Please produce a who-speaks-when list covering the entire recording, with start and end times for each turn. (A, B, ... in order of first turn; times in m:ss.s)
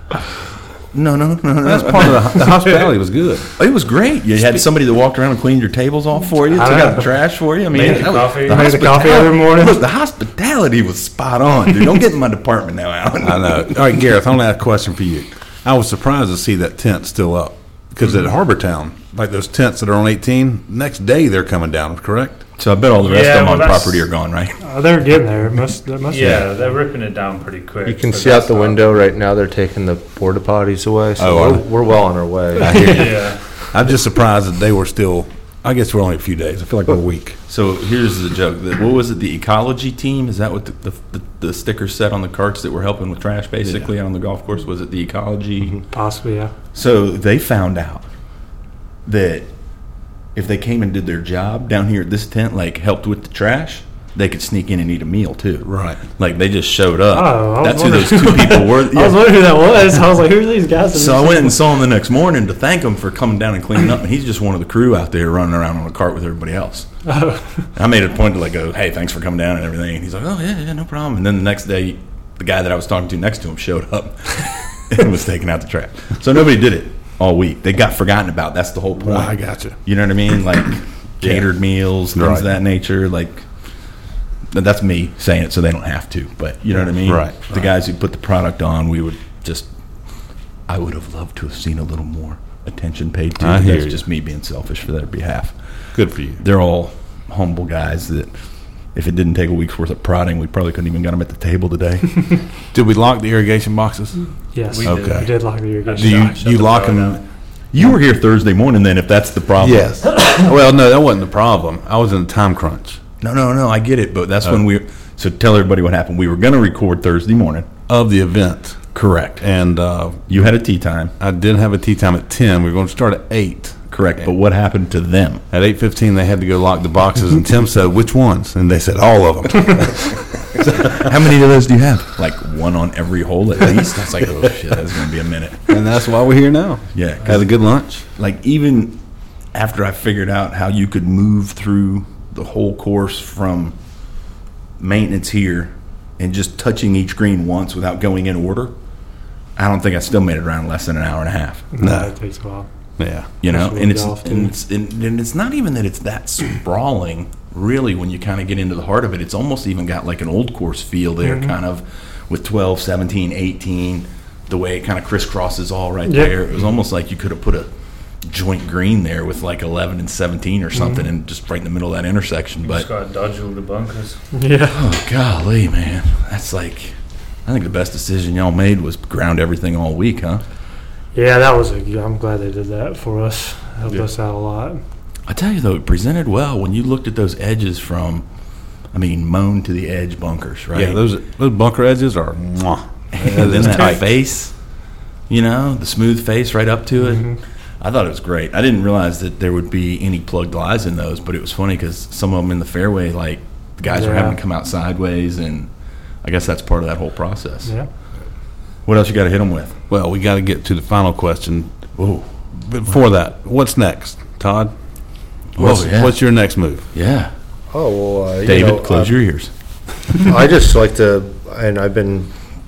0:00.9-0:02.4 A
0:01.6-0:03.5 B
0:03.6-0:13.8 A
0:06.5-0:07.1 C
0:07.7-0:08.7 D
0:08.1-0:09.8 C
0:13.2-0:22.5 B
0:22.6-0:24.6 A
0:23.0-0:24.1 D
0:24.6-0:26.8 C
0:26.1-0:28.9 D
0:27.9-0:33.0 E
0:31.2-0:31.7 B
0:32.6-0:37.4 B
0:32.9-0:33.7 D
0:37.5-0:45.8 A
0:45.9-0:46.5 C
0:46.7-0:48.1 A
0:49.0-0:49.5 A
0:50.3-0:59.4 A
0:55.6-0:56.0 B
0:57.1-1:01.6 C
1:00.9-1:06.9 A
1:07.1-1:07.7 C
1:07.7-1:23.5 A
1:19.0-1:19.8 B
1:21.2-1:21.5 B
1:22.0-1:22.5 B
1:24.5-1:29.7 A
1:27.0-1:27.5 B
1:30.7-1:42.5 A
1:33.4-1:34.0 B
1:35.9-1:36.4 B
1:42.7-1:47.2 B
1:44.5-1:46.4 C
1:44.7-1:47.2 D
1:47.7-1:50.0 A
1:49.6-1:53.0 B
1:53.2-1:57.8 A
1:57.9-2:00.3 B
1:58.9-1:59.4 A
2:00.3-2:01.1 A
2:01.2-2:03.9 B
2:03.9-2:05.4 A
2:05.5-2:11.0 B
2:10.7-2:15.8 A
2:15.7-2:18.1 B
2:16.9-2:19.0 A
2:19.5-2:23.8 A
2:24.8-2:28.7 A
2:29.6-2:31.7 A
2:31.7-2:32.7 C
2:31.8-2:32.2 B
2:33.0-2:33.4 B
2:33.4-2:47.7 A
2:33.4-2:34.5 C
2:41.2-2:41.6 C
2:46.1-2:46.4 C
2:48.2-2:52.9 A
2:50.7-2:51.1 C
2:52.6-2:54.2 D
2:54.3-2:54.8 C
2:54.7-3:00.4 A
3:01.1-3:04.8 C
3:05.3-3:08.3 A
3:08.8-3:11.0 A
3:10.7-3:14.0 B
3:13.1-3:14.6 A
3:15.3-3:25.7 A
3:17.0-3:17.4 C
3:23.9-3:24.4 C
3:26.2-3:27.7 A
3:28.8-3:29.8 A
3:29.9-3:31.8 B
3:32.0-3:32.3 A
3:32.5-3:34.7 B
3:35.6-3:36.2 A
3:35.6-3:36.9 B
3:36.9-3:37.3 A
3:37.7-3:39.2 E
3:38.4-3:39.5 A
3:40.2-3:42.3 E